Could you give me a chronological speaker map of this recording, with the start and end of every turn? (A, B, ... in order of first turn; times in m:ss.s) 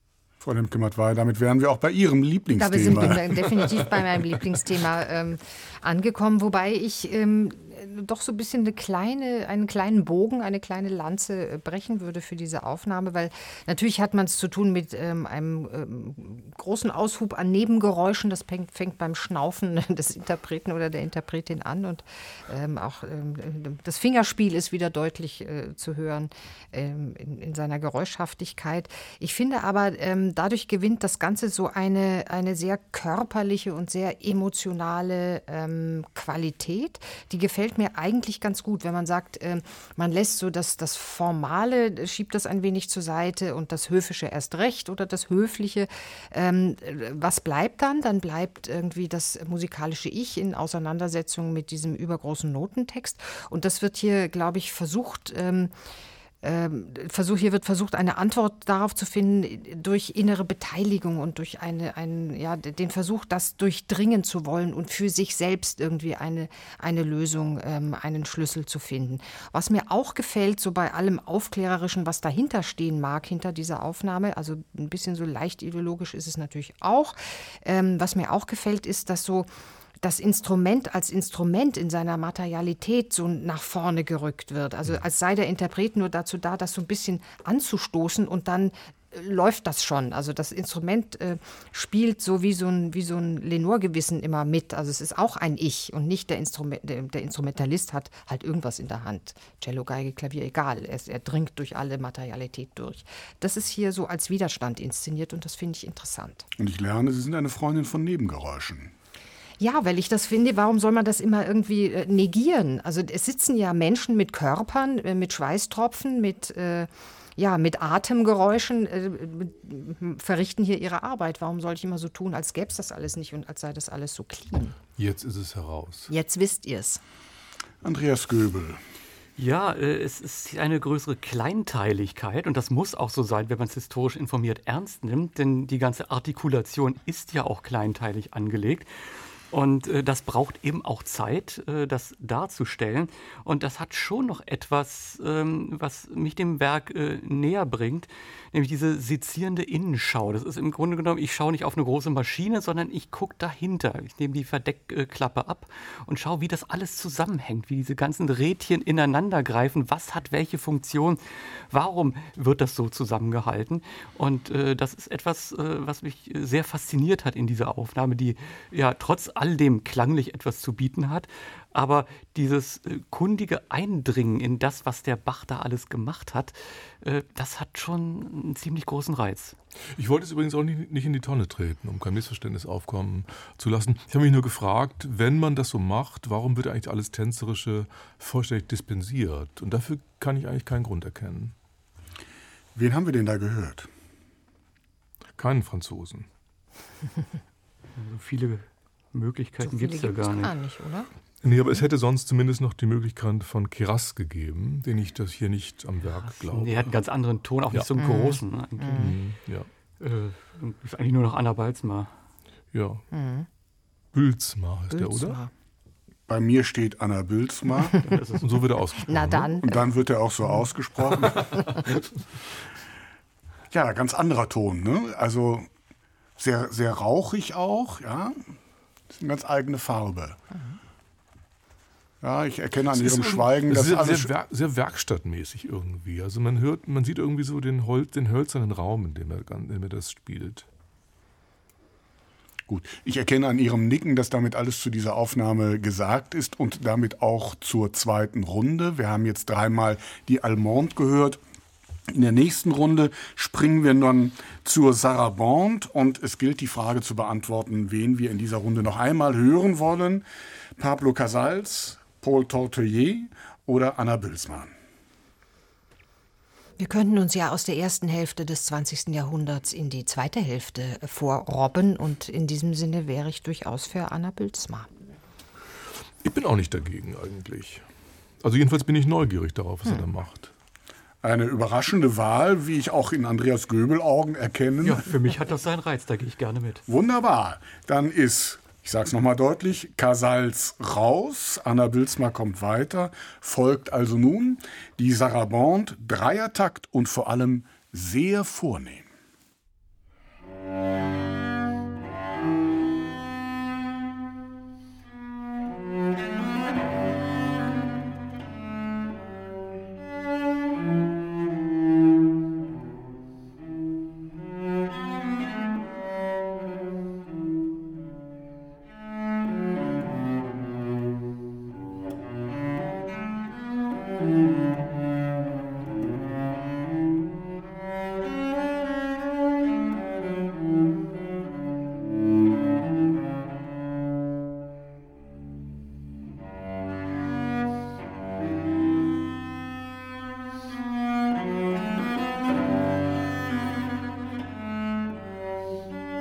0:00.4-0:03.2 A
0:02.6-0:55.7 B
0:56.4-1:19.5 B
1:20.0-1:46.5 B
1:46.6-1:48.9 A
1:49.6-2:04.8 B
2:05.0-2:06.1 C
2:06.1-2:07.0 B
2:07.8-2:08.8 A
2:09.4-2:59.5 D
3:00.0-3:11.5 C
3:12.7-3:13.9 A
3:15.4-3:16.3 C
3:18.0-3:20.5 D
3:19.6-3:21.1 B
3:21.4-3:26.9 C
3:26.0-3:29.3 D
3:28.0-3:29.2 B
3:28.9-3:29.7 C
3:30.0-3:32.1 D
3:32.7-3:33.0 C
3:33.1-3:33.5 B
3:34.1-3:35.4 C
3:34.9-3:35.5 B
3:36.3-3:37.9 A
3:37.8-3:38.2 B
3:38.0-3:38.7 D
3:38.4-3:39.6 C
3:39.0-3:39.8 B
3:39.6-3:41.7 A
3:43.7-3:45.7 A
3:46.4-3:48.5 A
3:49.1-3:50.4 A
3:52.2-3:54.3 A
3:52.9-4:00.7 C
4:02.7-4:11.4 A
4:12.1-4:20.2 A
4:20.8-4:24.7 A
4:26.8-4:34.9 B
4:36.2-4:37.8 C
4:38.4-4:40.5 C
4:41.2-4:45.1 A
4:44.8-4:46.9 D
4:46.9-4:59.1 A